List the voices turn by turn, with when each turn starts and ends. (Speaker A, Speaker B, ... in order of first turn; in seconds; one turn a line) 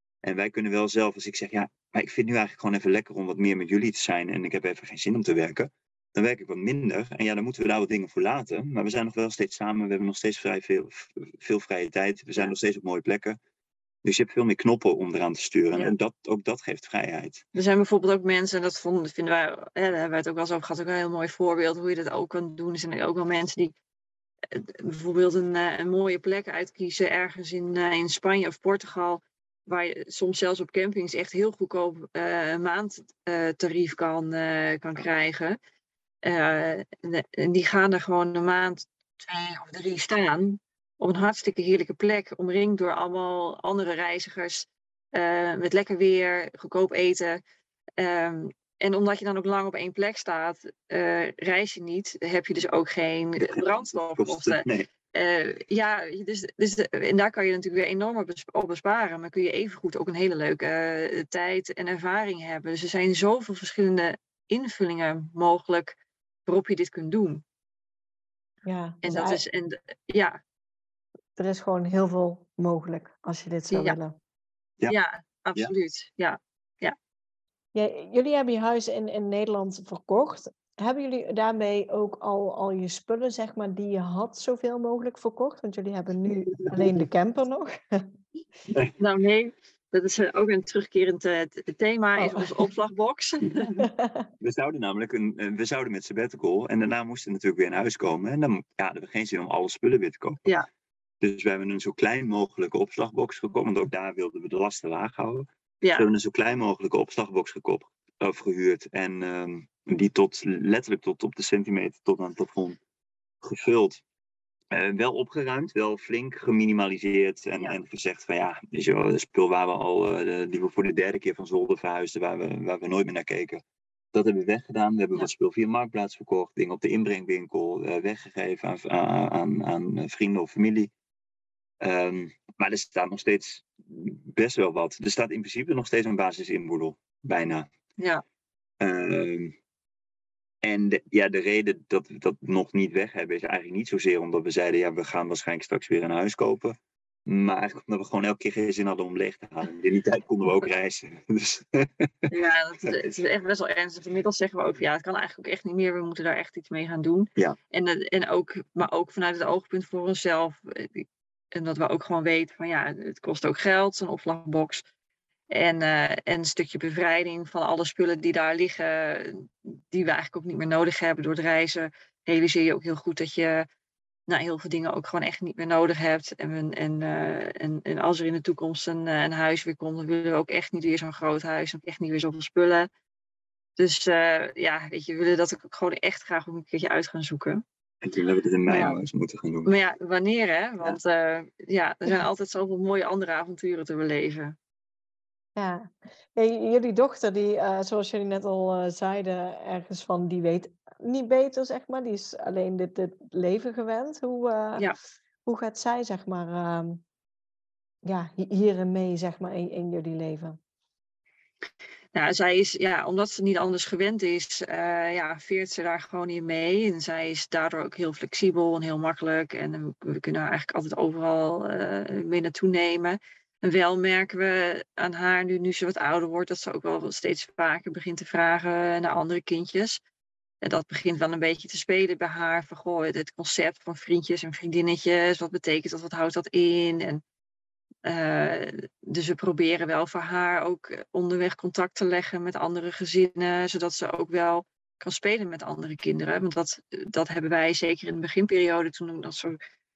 Speaker A: 0.2-13.4
Speaker A: 14.0-17.4
Speaker B: 17.5-23.7
Speaker B: 24.5-35.6
Speaker B: 36.2-47.4
Speaker B: 48.0-67.4
Speaker A: 53.5-54.9
Speaker C: 68.6-69.4
Speaker B: 69.0-70.4
Speaker C: 71.3-74.2
Speaker B: 73.7-74.0
Speaker B: 74.9-76.9
Speaker C: 77.7-88.1
Speaker A: 86.6-86.9
Speaker B: 89.0-93.8
Speaker C: 92.2-92.5
Speaker C: 93.8-94.3
Speaker A: 94.4-100.4
Speaker A: 101.2-112.8
Speaker B: 105.8-106.1
Speaker A: 113.4-114.0
Speaker A: 114.7-123.6
Speaker A: 124.1-130.9
Speaker A: 131.8-137.7
Speaker B: 138.0-138.2
Speaker A: 138.8-139.5
Speaker A: 140.6-146.7
Speaker A: 147.3-152.3
Speaker B: 152.3-164.8
Speaker B: 165.5-173.7
Speaker B: 174.3-182.9
Speaker B: 183.8-187.6
Speaker A: 188.0-189.7
Speaker B: 188.7-189.0
Speaker B: 189.6-194.6
Speaker C: 195.6-204.9
Speaker C: 205.4-207.0
Speaker C: 208.1-210.6
Speaker B: 212.1-230.0
Speaker B: 230.6-237.2
Speaker B: 238.1-249.6